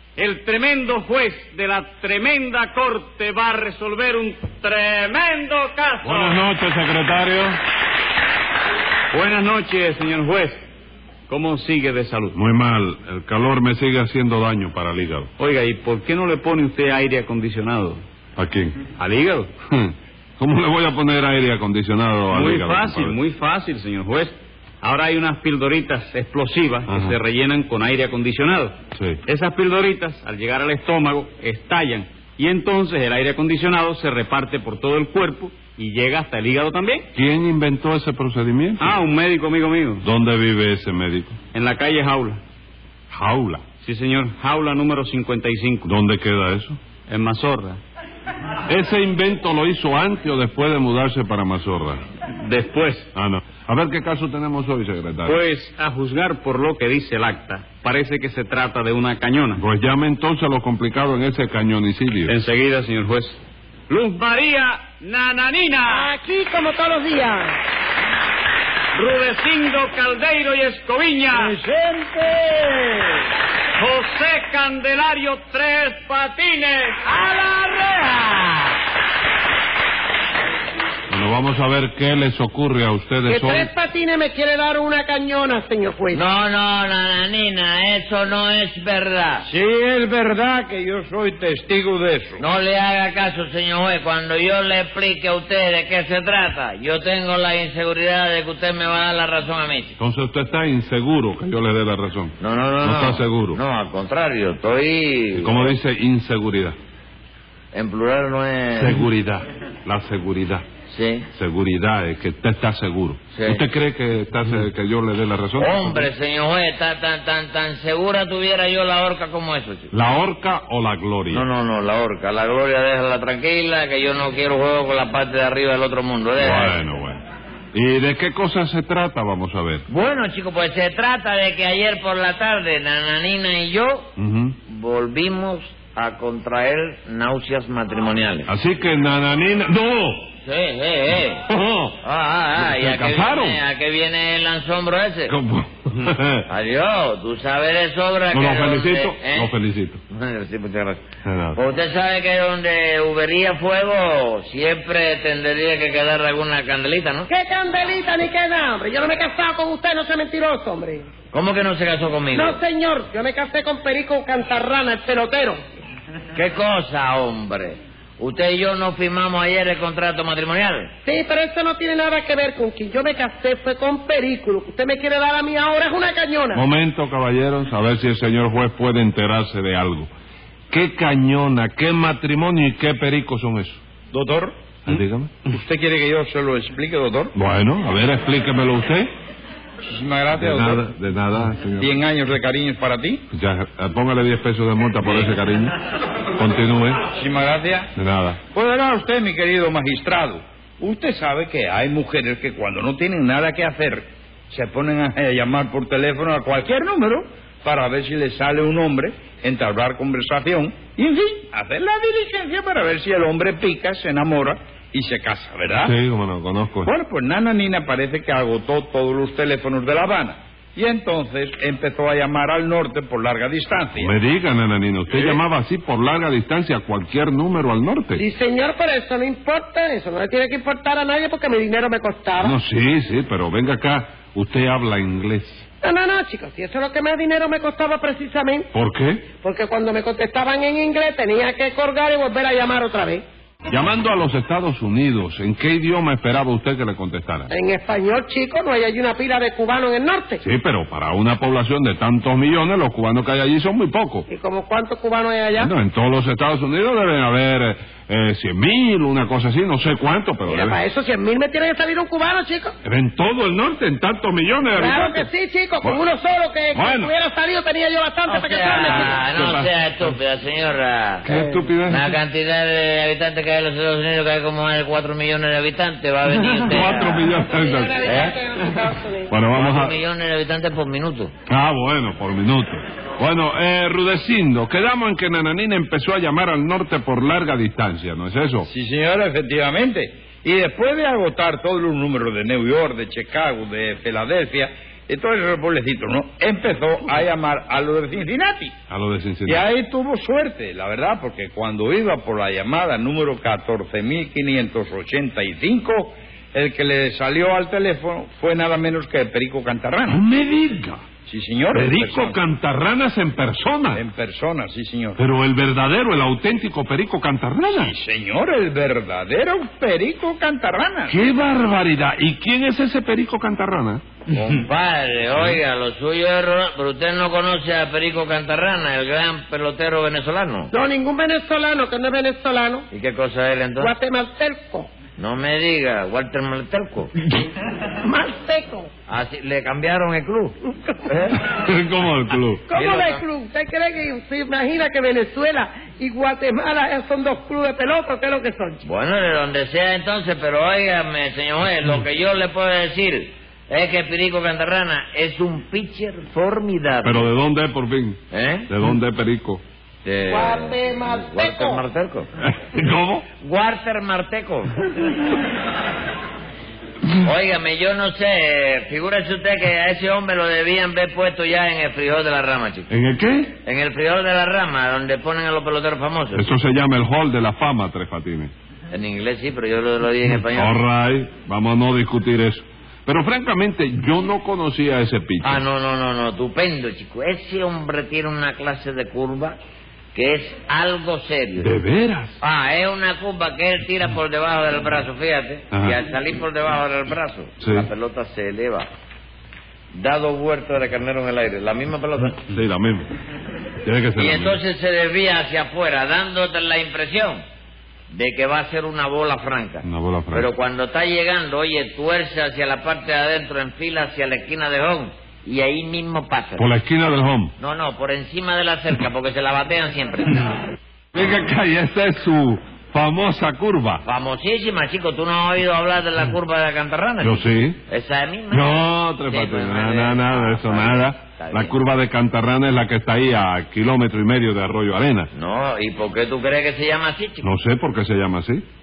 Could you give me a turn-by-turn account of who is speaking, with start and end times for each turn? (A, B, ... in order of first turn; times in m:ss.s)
0:00.2-0:06.5 A
0:06.0-0:07.6 B
0:09.1-0:10.6 A
0:11.3-0:12.4 A
0:12.3-0:15.3 B
0:15.4-0:18.0 A
0:18.4-0:18.9 B
0:19.0-0:19.5 A
0:19.7-0:23.2 B
0:22.3-0:37.0 A
0:26.9-0:27.2 B
0:29.0-0:29.2 B
0:37.1-0:39.0 B
0:38.8-0:40.0 A
0:40.0-0:41.4 B
0:41.5-0:42.4 A
0:43.1-0:43.6 B
0:43.8-0:45.9 A
0:45.8-0:46.8 B
0:47.1-0:47.8 A
0:48.7-0:52.0 B
0:52.3-0:53.1 A
0:53.1-0:55.4 B
0:55.2-0:59.6 A
0:59.6-1:02.4 B
1:02.3-1:06.1 A
1:05.9-1:07.6 C
1:09.0-1:11.6 A
1:11.4-1:13.2 D
1:13.8-1:17.0 A
1:17.0-1:18.8 D
1:21.1-1:23.7 B
1:23.3-1:26.2 C
1:26.1-1:29.5 D
1:29.5-1:32.4 E
1:32.4-1:40.0 D
1:40.0-1:43.6 B
1:42.4-1:45.8 D
1:45.4-1:46.8 B
1:47.7-1:49.0 D
1:48.8-1:50.6 B
1:50.9-1:51.3 D
1:51.3-1:56.1 B
1:53.3-1:53.6 D
1:55.6-1:59.9 D
1:59.9-2:01.5 B
2:01.3-2:06.8 D
2:06.4-2:07.2 B
2:07.7-2:09.9 B
2:09.9-2:14.1 D
2:14.2-2:14.6 B
2:14.7-2:18.5 D
2:18.5-2:20.3 B
2:20.4-2:21.5 D
2:21.5-2:22.0 B
2:22.0-2:25.4 D
2:22.6-2:23.6 B
2:25.3-2:26.5 B
2:26.5-2:29.5 D
2:28.3-2:30.0 B
2:30.1-2:31.0 D
2:31.2-2:31.6 B
2:31.6-2:37.3 D
2:37.3-2:41.1 C
2:41.3-2:42.6 D
2:42.3-2:45.6 C
2:46.4-2:50.9 D
2:51.0-2:56.6 C
2:56.5-3:00.1 B
3:00.7-3:03.8 B
3:04.1-3:04.6 E
3:04.8-3:05.3 B
3:05.5-3:07.3 E
3:07.4-3:09.1 B
3:09.8-3:10.8 E
3:10.3-3:12.0 B
3:11.8-3:13.2 E
3:13.3-3:15.8 B
3:15.0-3:15.3 E
3:16.4-3:17.0 B
3:17.1-3:17.9 E
3:18.0-3:18.4 B
3:18.5-3:35.9 E
3:35.8-3:36.9 B
3:36.9-3:44.1 E
3:44.0-3:48.2 B
3:48.2-3:52.4 C
3:52.4-3:55.7 B
3:55.8-3:58.7 C
3:58.7-3:59.3 B
3:59.4-4:03.2 C
4:03.7-4:07.5 B
4:07.5-4:10.4 C
4:10.4-4:14.3 B
4:14.3-4:15.6 C
4:15.6-4:20.8 B
4:20.4-4:22.8 C
4:22.8-4:25.3 B
4:24.8-4:29.2 C
4:26.7-4:27.1 B
4:28.3-4:31.3 D
4:28.8-4:29.7 B
4:31.2-4:32.1 B
4:31.9-4:37.2 D
4:36.3-4:38.1 B
4:37.2-4:39.3 C
4:38.0-4:38.4 D
4:39.3-4:40.0 B
4:39.5-4:41.3 D
4:41.5-4:48.7 B
4:48.7-4:58.7 E
4:58.9-4:59.6 B
4:59.5-5:10.2 E
5:10.1-5:11.0 B
5:11.3-5:12.4 E
5:11.7-5:14.0 B
5:13.9-5:15.2 E
5:15.2-5:17.9 B
5:17.7-5:21.2 E
5:21.1-5:24.0 B
5:24.3-5:24.6 E
5:24.5-5:30.7 D
5:30.7-5:32.9 C
5:32.9-5:33.9 D
5:33.8-5:35.0 C
5:35.2-5:37.2 D
5:38.0-5:38.9 C
5:39.1-5:41.4 D
5:40.6-5:41.1 C
5:41.4-5:42.6 B
5:42.7-5:48.8 C
5:42.7-5:43.2 D
5:48.8-5:57.3 D
5:57.0-5:59.6 B
5:58.3-5:58.7 D
6:00.0-6:02.3 D
6:00.3-6:01.8 C
6:02.4-6:03.2 B
6:03.4-6:04.8 D
6:07.1-6:12.9 D
6:12.9-6:13.6 B
6:13.6-6:16.5 D
6:16.3-6:18.5 B
6:18.9-6:20.8 D
6:20.4-6:25.6 B
6:25.4-6:29.6 D
6:30.1-6:31.7 D
6:31.6-6:32.4 B
6:32.4-6:38.9 D
6:35.7-6:36.0 B
6:37.6-6:37.9 B
6:39.9-6:42.4 D
6:42.5-6:43.1 B
6:43.8-6:44.6 B
6:44.2-6:47.4 D
6:48.1-6:56.7 D
6:49.8-6:50.5 B
6:56.6-6:57.5 B
6:57.6-7:00.5 D
7:01.1-7:04.0 B
7:04.0-7:11.8 D
7:07.2-7:07.8 B
7:08.5-7:15.3 B
7:15.3-7:17.5 D
7:17.4-7:18.6 B